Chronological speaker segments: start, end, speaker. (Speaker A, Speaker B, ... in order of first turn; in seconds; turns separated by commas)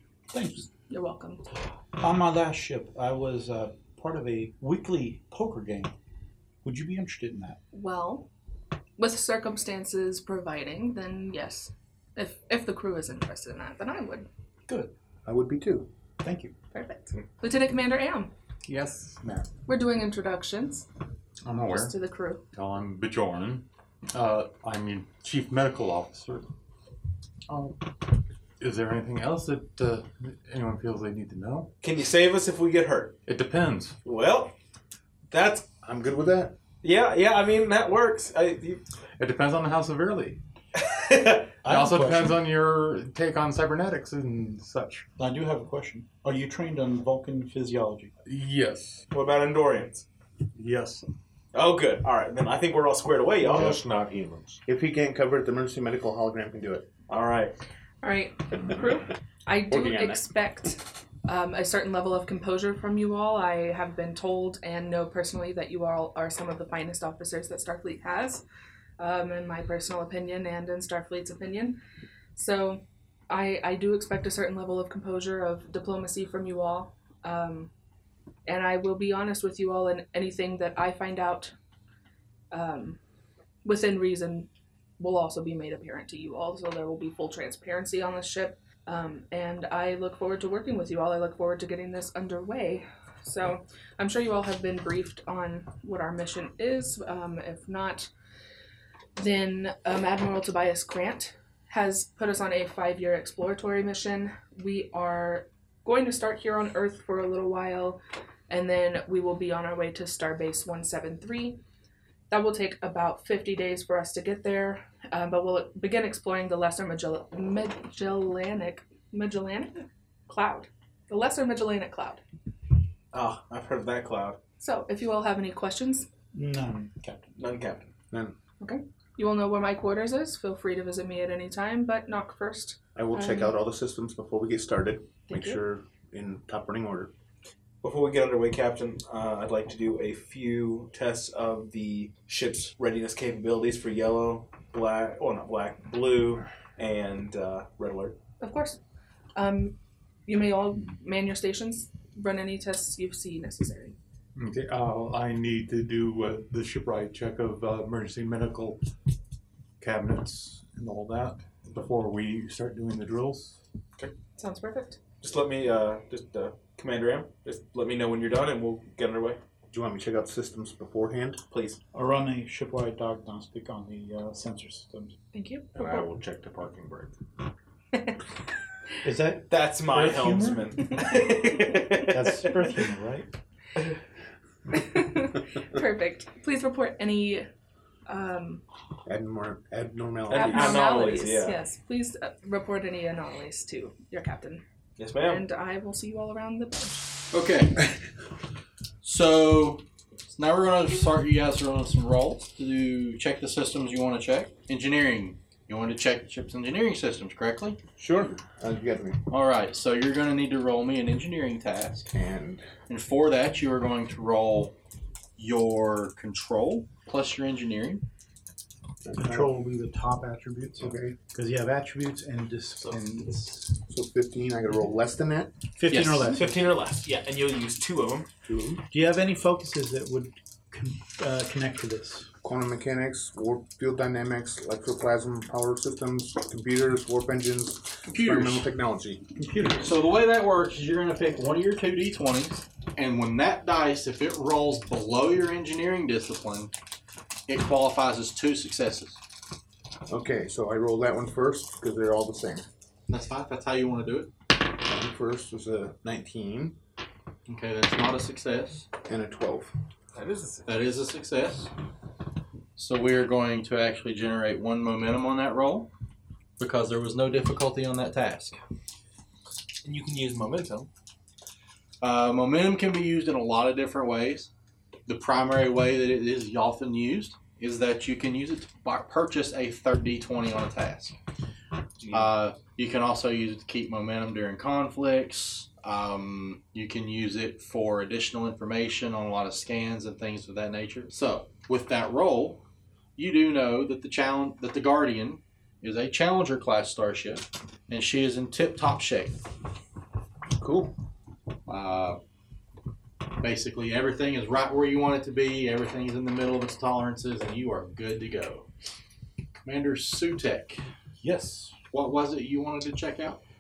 Speaker A: 0.3-0.7, Speaker B: 0.9-1.4, Speaker A: 2.0-5.9, Speaker A: 6.6-7.6, Speaker B: 7.7-8.3, Speaker B: 9.0-14.3, Speaker C: 15.2-15.9, Speaker A: 16.2-16.6, Speaker B: 16.7-18.3, Speaker D: 18.7-19.4, Speaker B: 19.7-20.9, Speaker D: 21.4-21.9, Speaker B: 21.7-22.4, Speaker D: 22.5-26.5, Speaker D: 27.5-27.8, Speaker D: 28.6-31.7, Speaker E: 31.8-33.2, Speaker D: 33.3-34.0, Speaker E: 34.0-34.5, Speaker E: 35.3-35.7, Speaker C: 35.8-36.6, Speaker E: 36.8-38.8, Speaker D: 39.2-40.4, Speaker E: 40.8-41.5, Speaker A: 41.6-42.4, Speaker D: 41.7-45.1, Speaker A: 45.2-48.1, Speaker D: 48.3-49.0, Speaker E: 49.1-50.0, Speaker D: 50.5-51.1, Speaker E: 51.5-53.8, Speaker F: 53.4-54.6, Speaker C: 54.6-56.9, Speaker E: 57.1-57.5, Speaker B: 58.0-68.4, Speaker C: 59.7-60.3, Speaker B: 69.0-71.8, Speaker B: 72.3-77.7, Speaker B: 78.5-81.5, Speaker B: 82.5-83.0, Speaker B: 83.7-98.1, Speaker B: 99.2-111.6, Speaker B: 112.3-122.2, Speaker E: 123.1-124.4, Speaker B: 124.6-126.1, Speaker A: 126.3-127.3, Speaker E: 127.4-127.9, Speaker B: 128.6-133.6, Speaker C: 132.9-137.1, Speaker B: 135.3-135.6, Speaker E: 137.8-148.2, Speaker B: 148.4-148.8, Speaker B: 149.3-154.0, Speaker D: 154.4-158.8, Speaker D: 159.8-163.6, Speaker B: 164.4-165.0, Speaker E: 165.2-169.4, Speaker C: 169.7-171.4, Speaker E: 171.5-171.8, Speaker A: 171.9-175.2, Speaker B: 175.3-176.1, Speaker F: 175.8-177.2, Speaker B: 177.9-178.2, Speaker A: 179.0-180.6, Speaker E: 179.5-182.4, Speaker A: 182.1-183.3, Speaker B: 184.7-187.5, Speaker B: 188.1-188.6, Speaker C: 189.1-190.9, Speaker B: 190.3-194.6, Speaker E: 190.3-191.6, Speaker E: 195.0-195.4, Speaker B: 195.2-197.1, Speaker G: 197.3-197.9, Speaker G: 199.0-199.8, Speaker G: 200.3-207.8, Speaker C: 208.0-209.2, Speaker G: 209.3-212.1, Speaker C: 212.1-212.6, Speaker G: 212.9-214.7, Speaker G: 215.4-218.0, Speaker C: 219.0-219.5, Speaker A: 219.2-223.7, Speaker C: 220.8-221.2, Speaker C: 223.9-225.5, Speaker A: 225.8-226.7, Speaker E: 225.9-228.3, Speaker C: 228.4-228.8, Speaker A: 228.9-232.3, Speaker C: 232.4-239.2, Speaker G: 238.1-238.7, Speaker A: 239.4-239.9, Speaker G: 239.8-246.7, Speaker G: 247.5-249.2, Speaker C: 250.1-252.7, Speaker G: 253.1-254.3, Speaker C: 254.7-256.8, Speaker G: 257.5-258.9, Speaker C: 259.1-259.7, Speaker E: 260.1-260.7, Speaker G: 260.7-261.7, Speaker G: 262.8-265.9, Speaker G: 266.6-268.6, Speaker E: 269.8-270.9, Speaker G: 272.0-274.5, Speaker G: 275.1-281.2, Speaker E: 282.0-282.3, Speaker G: 282.1-292.6, Speaker G: 293.2-299.4, Speaker C: 300.6-300.9, Speaker G: 301.7-302.2, Speaker G: 303.4-308.7, Speaker G: 309.6-310.8, Speaker A: 311.2-311.7, Speaker G: 311.9-313.4